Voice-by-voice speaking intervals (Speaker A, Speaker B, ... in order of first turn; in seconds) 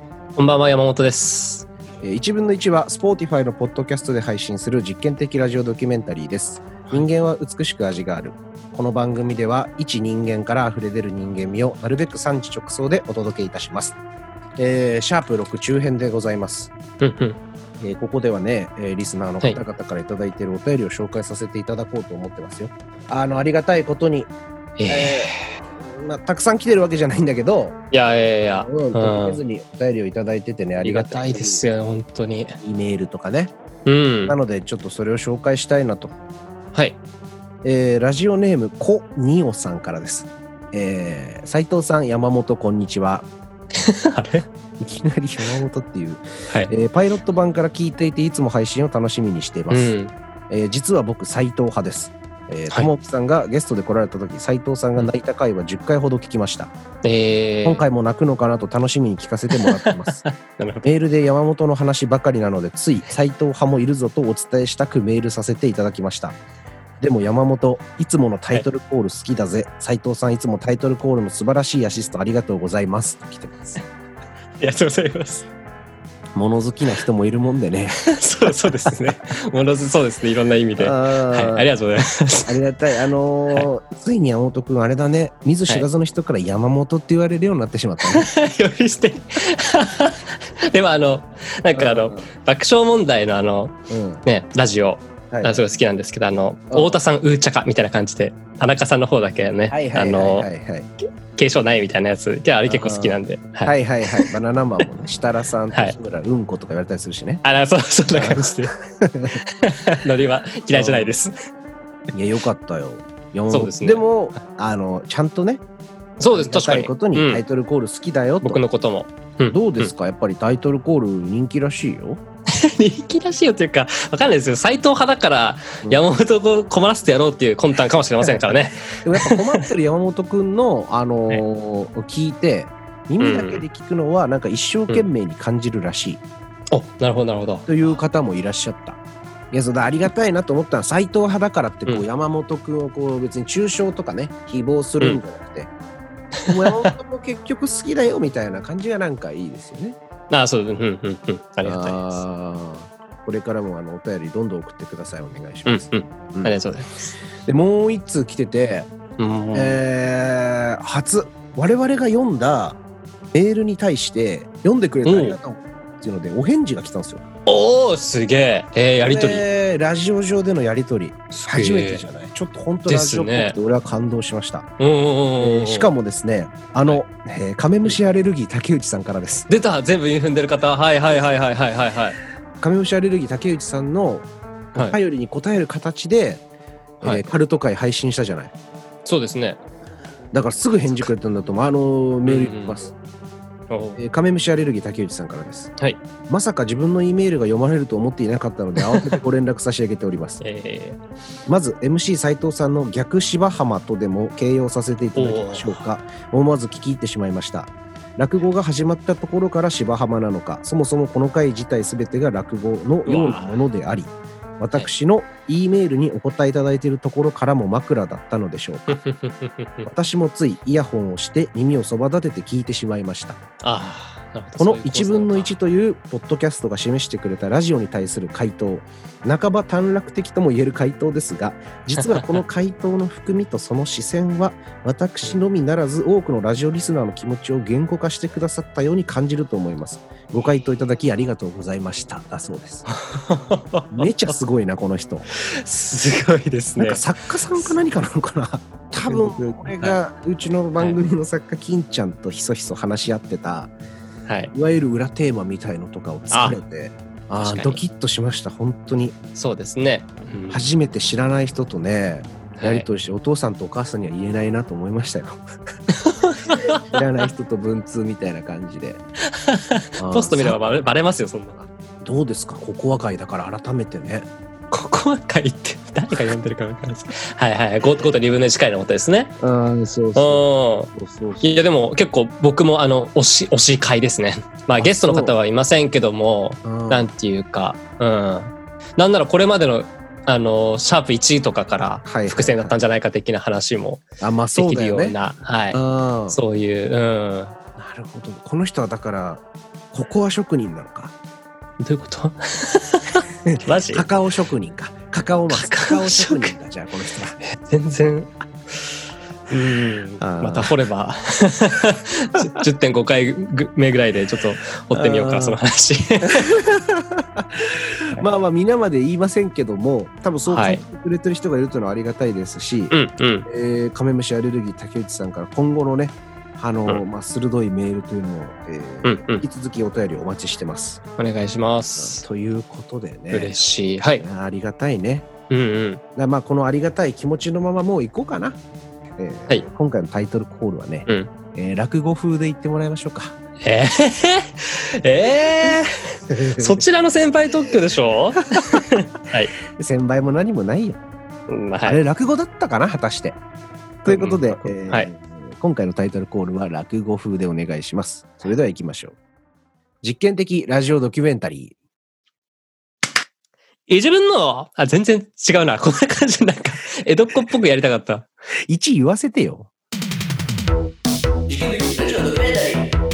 Speaker A: 0.4-1.7, 17.0-17.4, 24.8-25.4, 27.9-29.4, 30.8-32.6, 33.9-34.4, 43.8-44.5, 49.7-50.1, 57.0-57.8, 59.5-60.9, 74.6-75.5, 78.1-82.6, 88.1-100.5, 101.3-104.3, 107.4-108.8, 109.6-111.3, 113.5-114.0, 116.2-117.4, 118.4-119.9, 122.5-129.7, 133.2-133.6, 136.7-138.0, 146.4-146.9, 150.3-152.2, 155.7-157.1, 159.2-159.8, 165.1-165.4, 167.5-169.4, 171.5-172.0, 172.9-173.6, 174.8-175.9, 179.5-182.2, 187.0-187.3, 189.1-189.6, 192.2-192.8, 193.7-194.0, 198.8-199.2, 200.4-201.0, 205.2-205.8, 213.1-213.5, 218.9-219.9, 223.6-225.5, 232.0-232.3, 242.9-244.3, 245.4-247.0, 249.1-250.0, 256.3-256.6, 257.4-257.8, 259.4-260.6, 262.6-262.9, 266.0-267.0, 269.3-271.6, 274.7-279.3, 280.2-294.0, 294.6-295.8, 296.3-297.5, 301.8-304.1, 305.5-306.5, 307.4-308.9, 309.5-316.7, 320.5-320.8, 322.9-323.5, 329.0-329.4, 331.2-332.2, 333.3-334.2, 335.5-336.0, 341.1-341.3, 343.6-349.6, 351.5-352.0, 354.1-355.1, 363.9-368.3
Speaker B: 2.0-14.0, 14.6-16.7, 17.8-24.3, 24.9-27.8, 28.6-31.6, 32.6-33.5, 34.2-36.1, 37.6-43.3, 44.8-49.9, 50.5-56.7, 57.6-60.2, 60.8-66.4, 67.0-73.8, 76.3-79.1, 80.8-81.7, 82.5-88.3, 91.8-92.3, 93.9-94.2, 95.3-95.6, 96.7-97.0, 99.7-100.9, 102.7-107.4, 108.1-109.4, 110.7-111.1, 112.1-115.6, 116.3-118.6, 119.5-122.2, 128.2-136.2, 137.7-139.0, 139.5-145.7, 146.4-150.0, 151.6-156.6, 157.5-158.9, 159.5-162.8, 163.3-167.2, 169.0-174.7, 175.4-179.5, 182.6-186.4, 187.0-188.5, 190.3-192.9, 194.0-195.7, 196.3-200.4, 201.5-219.0, 219.8-223.4, 224.6-242.9, 243.9-245.3, 246.8-253.7, 254.5-259.2, 260.5-265.5, 266.6-269.0, 270.0-270.6, 272.0-274.3, 279.4-281.6, 284.8-285.3, 286.6-287.1, 292.1-292.8, 294.2-295.2, 295.7-296.4, 297.8-301.1, 303.5-307.4, 310.2-310.7, 314.9-315.6, 316.3-322.9, 323.5-331.0, 332.0-333.6, 334.2-335.3, 336.2-338.6, 339.2-343.4, 346.3-346.8, 349.7-351.0, 351.8-353.4, 354.0-359.2, 360.0-361.8, 368.7-369.7, 371.5-372.9